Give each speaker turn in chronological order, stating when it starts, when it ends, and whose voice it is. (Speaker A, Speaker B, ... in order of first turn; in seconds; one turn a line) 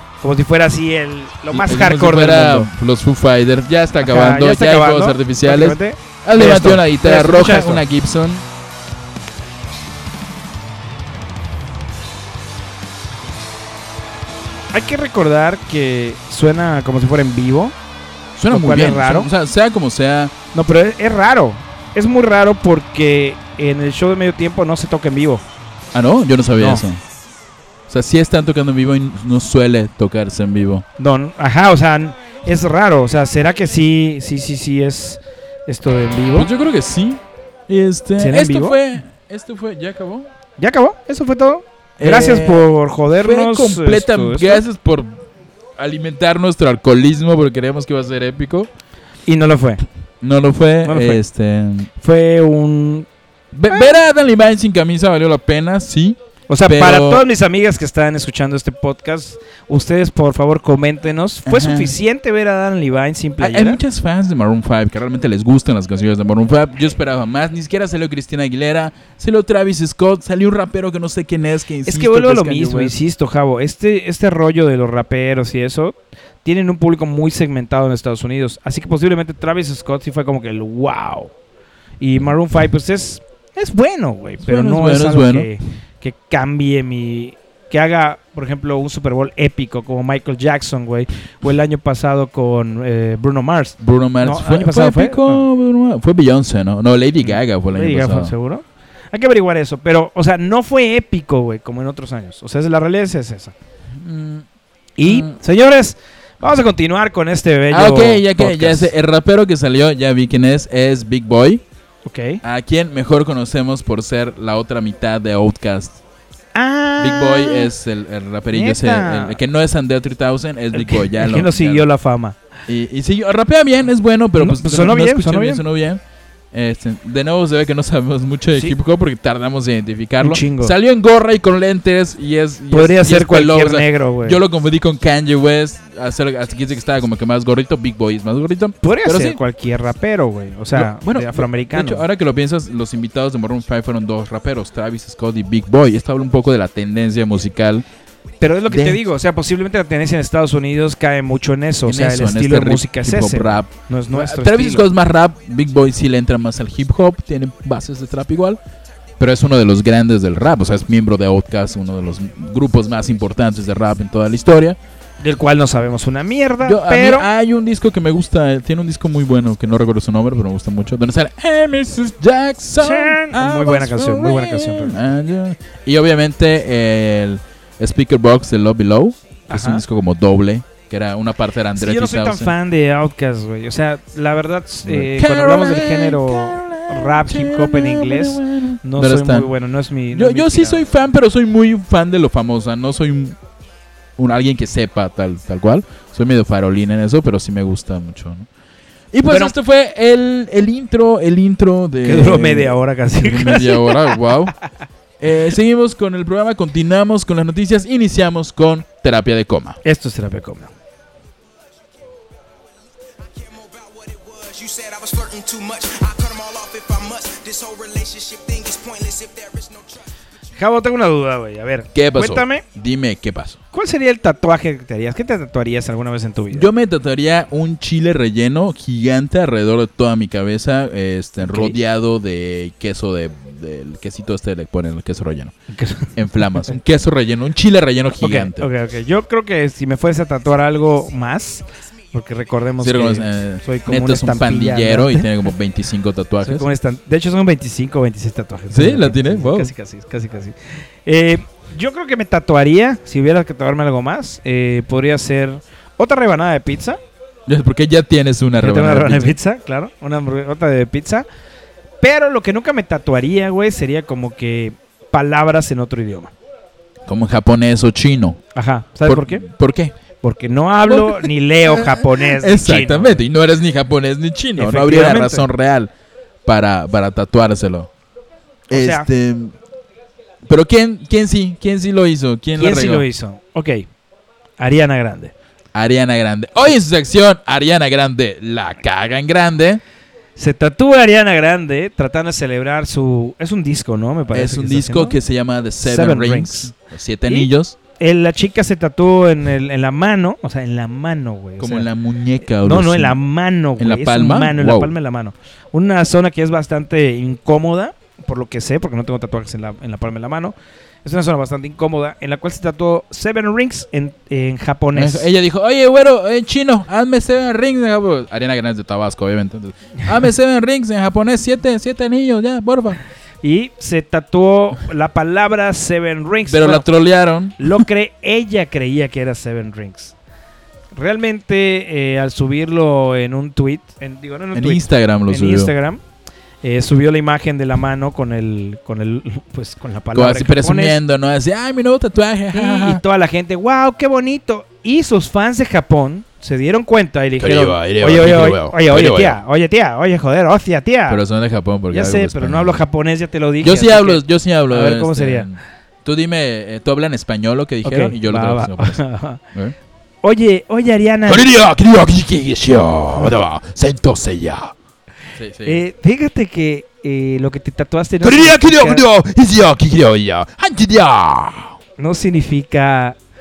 Speaker A: 0.2-2.7
Speaker B: 1.5-8.4
Speaker A: 4.0-7.8
Speaker A: 14.7-17.7
Speaker B: 18.4-20.3
Speaker A: 18.5-19.3
Speaker A: 20.5-25.4
Speaker B: 25.9-27.0
Speaker A: 26.6-26.8
Speaker B: 27.9-30.8
Speaker A: 31.0-36.5
Speaker B: 36.3-40.3
Speaker A: 38.2-38.8
Speaker A: 40.6-44.6
Speaker B: 42.0-45.2
Speaker B: 45.8-48.7
Speaker A: 49.2-49.8
Speaker B: 50.2-51.9
Speaker A: 50.8-51.2
Speaker A: 52.0-53.1
Speaker B: 53.5-57.2
Speaker A: 53.7-54.0
Speaker A: 56.5-63.8
Speaker B: 61.5-61.9
Speaker B: 63.4-73.0
Speaker A: 71.8-81.3
Speaker A: 82.0-95.4
Speaker B: 84.4-85.5
Speaker B: 93.8-98.3
Speaker A: 97.2-103.5
Speaker B: 103.9-104.4
Speaker A: 105.0-108.9
Speaker B: 105.0-105.4
Speaker B: 107.7-111.6
Speaker A: 112.0-112.4
Speaker B: 112.4-116.0
Speaker A: 116.5-117.7
Speaker B: 117.0-121.8
Speaker A: 118.5-119.4
Speaker A: 120.7-122.4
Speaker B: 122.7-126.0
Speaker A: 124.4-125.6
Speaker B: 126.5-139.4
Speaker A: 130.2-130.7
Speaker A: 132.7-134.4
Speaker A: 138.8-142.0
Speaker B: 140.7-147.8
Speaker A: 148.4-154.8
Speaker B: 148.7-149.0
Speaker B: 151.8-158.6
Speaker B: 159.2-164.8
Speaker A: 165.2-167.3
Speaker B: 166.6-182.5
Speaker A: 172.8-175.0
Speaker A: 179.5-179.8
Speaker A: 181.7-190.9
Speaker B: 184.8-189.5
Speaker B: 190.1-193.4
Speaker B: 194.2-198.5
Speaker B: 199.1-204.6
Speaker A: 199.3-199.5
Speaker A: 202.0-204.2
Speaker B: 205.2-209.8
Speaker A: 209.8-210.7
Speaker C: 213.5-220.0
Speaker A: 220.6-222.6
Speaker B: 221.9-223.6
Speaker A: 223.7-226.7
Speaker B: 226.5-235.5
Speaker A: 231.4-231.8
Speaker A: 235.7-236.7
Speaker B: 236.2-238.7
Speaker A: 238.2-245.3
Speaker B: 242.8-246.7
Speaker A: 246.4-257.0
Speaker B: 248.7-249.7
Speaker B: 257.4-259.4
Speaker A: 258.6-261.2
Speaker A: 262.0-266.3
Speaker B: 267.1-268.4
Speaker A: 268.5-269.4
Speaker B: 269.0-269.9
Speaker A: 270.2-273.2
Speaker B: 270.9-275.9
Speaker A: 274.6-275.5
Speaker B: 276.4-277.9
Speaker B: 278.7-279.5
Speaker A: 278.7-279.1
Speaker B: 280.4-283.1
Speaker A: 282.6-283.9
Speaker A: 284.6-285.3
Speaker B: 285.7-289.8
Speaker A: 290.4-295.2
Speaker B: 294.3-297.8
Speaker A: 295.8-296.7
Speaker A: 297.3-301.9
Speaker B: 301.6-303.2
Speaker A: 302.6-315.3
Speaker B: 303.8-304.9
Speaker B: 314.9-323.0
Speaker A: 323.4-326.9
Speaker B: 326.5-327.8
Speaker A: 327.6-330.1
Speaker A: 330.9-336.0
Speaker B: 334.5-335.7
Speaker A: 336.6-341.0
Speaker B: 340.1-343.0
Speaker A: 342.5-351.2
Speaker B: 347.4-349.4
Speaker B: 351.1-352.8
Speaker A: 351.9-355.5
Speaker B: 353.6-359.0
Speaker A: 357.8-359.4
Speaker A: 360.2-361.4
Speaker B: 361.3-364.7
Speaker B: 365.3-365.8
Speaker A: 365.6-369.1
Speaker B: 368.2-371.8
Speaker A: 372.0-373.2